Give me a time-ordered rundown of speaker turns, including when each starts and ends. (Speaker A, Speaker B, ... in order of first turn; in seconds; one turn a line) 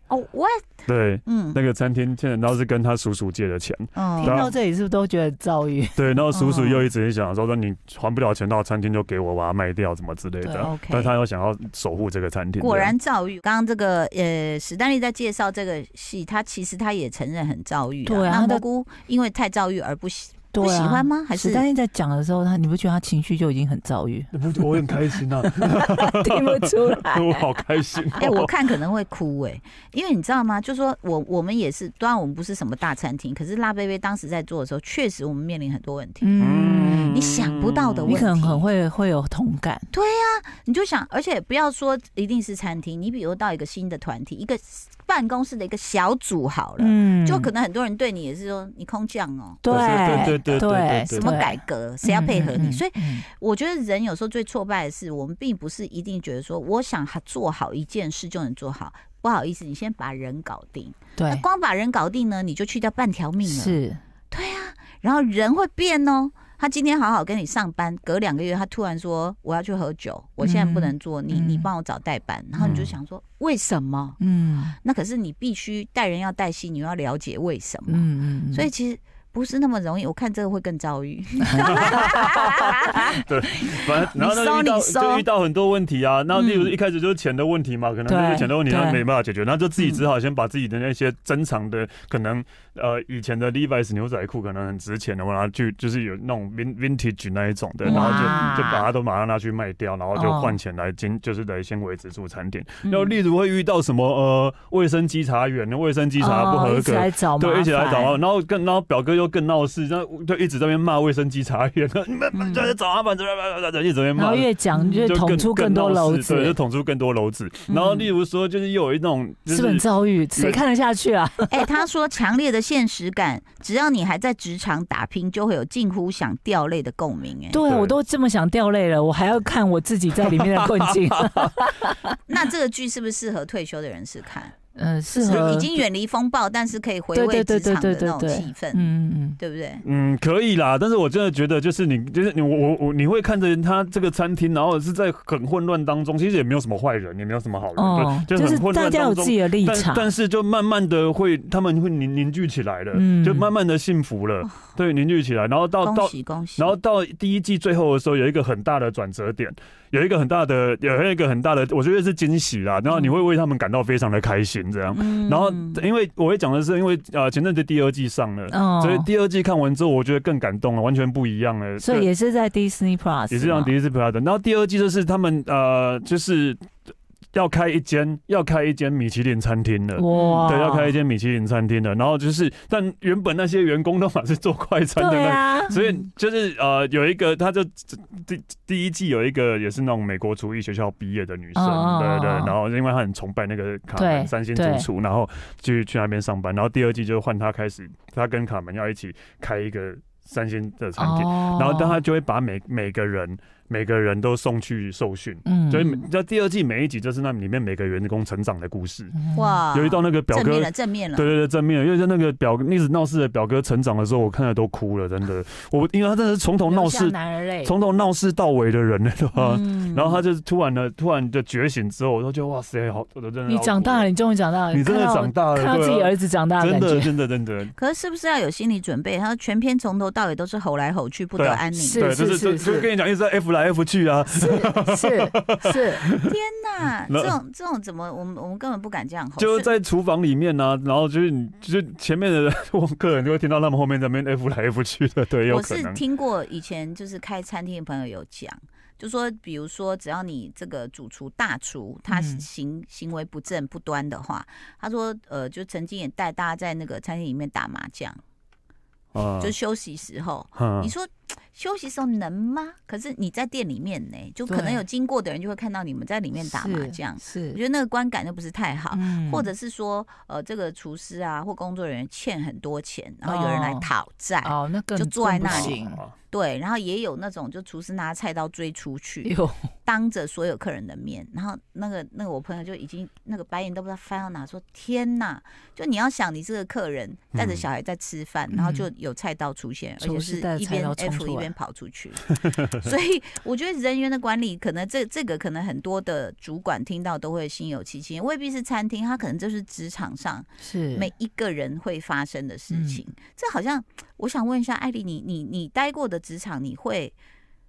Speaker A: 0.1-1.6
Speaker B: 0.9-4.5
Speaker A: 3.9-4.4
Speaker C: 4.2-6.0
Speaker B: 6.0-12.9
Speaker A: 6.3-6.8
Speaker C: 10.4-10.7
Speaker A: 10.6-11.1
Speaker A: 12.6-21.6
Speaker C: 18.1-18.6
Speaker C: 20.5-24.3
Speaker B: 24.3-28.5
Speaker C: 25.5-27.6
Speaker A: 28.2-38.6
Speaker C: 36.2-37.1
Speaker B: 36.4-38.2
Speaker C: 38.1-39.9
Speaker A: 39.9-63.8
Speaker C: 46.8-47.5
Speaker C: 49.6-53.2
Speaker B: 49.7-51.3
Speaker C: 61.2-61.4
Speaker C: 63.4-64.0
Speaker A: 64.3-74.2
Speaker C: 70.4-71.7
Speaker B: 72.6-72.9
Speaker C: 74.2-74.8
Speaker A: 74.8-85.2
Speaker C: 77.9-78.7
Speaker C: 81.5-81.7
Speaker B: 81.6-120.6
Speaker A: 86.3-86.7
Speaker C: 88.1-89.0
Speaker A: 97.8-98.6
Speaker C: 97.8-98.8
Speaker C: 100.1-100.6
Speaker A: 102.8-103.2
Speaker C: 106.2-108.2
Speaker A: 112.3-112.7
Speaker C: 114.2-116.5
Speaker A: 114.8-115.0
Speaker A: 117.7-118.1
Speaker C: 119.5-121.7
Speaker A: 121.5-127.6
Speaker C: 127.5-132.2
Speaker B: 127.7-128.0
Speaker B: 130.2-131.5
Speaker A: 132.3-134.6
Speaker C: 134.7-135.7
Speaker A: 135.1-139.8
Speaker C: 137.1-139.4
Speaker B: 139.8-172.1
Speaker C: 147.8-150.1
Speaker C: 152.9-153.5
Speaker A: 155.8-156.7
Speaker A: 164.9-165.8
Speaker C: 168.5-169.1
Speaker C: 171.8-173.7
Speaker B: 173.3-176.7
Speaker B: 177.3-209.2
Speaker C: 180.0-180.9
Speaker A: 180.1-180.5
Speaker C: 184.9-185.8
Speaker C: 191.5-192.5
Speaker C: 193.9-194.9
Speaker C: 201.0-202.0
Speaker C: 205.4-205.9
Speaker C: 209.1-209.6
Speaker A: 209.3-211.3
Speaker B: 209.7-224.1
Speaker C: 216.7-217.7
Speaker A: 219.3-220.2
Speaker C: 223.5-227.1
Speaker B: 224.7-227.8
Speaker A: 227.8-232.1
Speaker B: 231.4-236.3
Speaker C: 231.7-232.9
Speaker C: 234.3-236.0
Speaker A: 236.2-239.7
Speaker B: 237.1-237.3
Speaker B: 239.4-246.0
Speaker A: 245.5-258.2
Speaker C: 252.1-252.4
Speaker B: 259.1-259.5
Speaker A: 259.4-275.8
Speaker B: 260.6-260.9
Speaker C: 264.5-264.8
Speaker C: 266.4-267.6
Speaker C: 268.9-269.5
Speaker C: 273.2-273.9
Speaker C: 274.4-276.0
Speaker B: 275.4-276.1
Speaker A: 276.3-279.3
Speaker C: 279.2-279.7
Speaker A: 279.9-307.1
Speaker B: 287.3-287.6
Speaker C: 288.5-288.9
Speaker C: 290.0-291.5
Speaker B: 292.5-292.8
Speaker C: 300.6-301.1
Speaker C: 302.7-303.0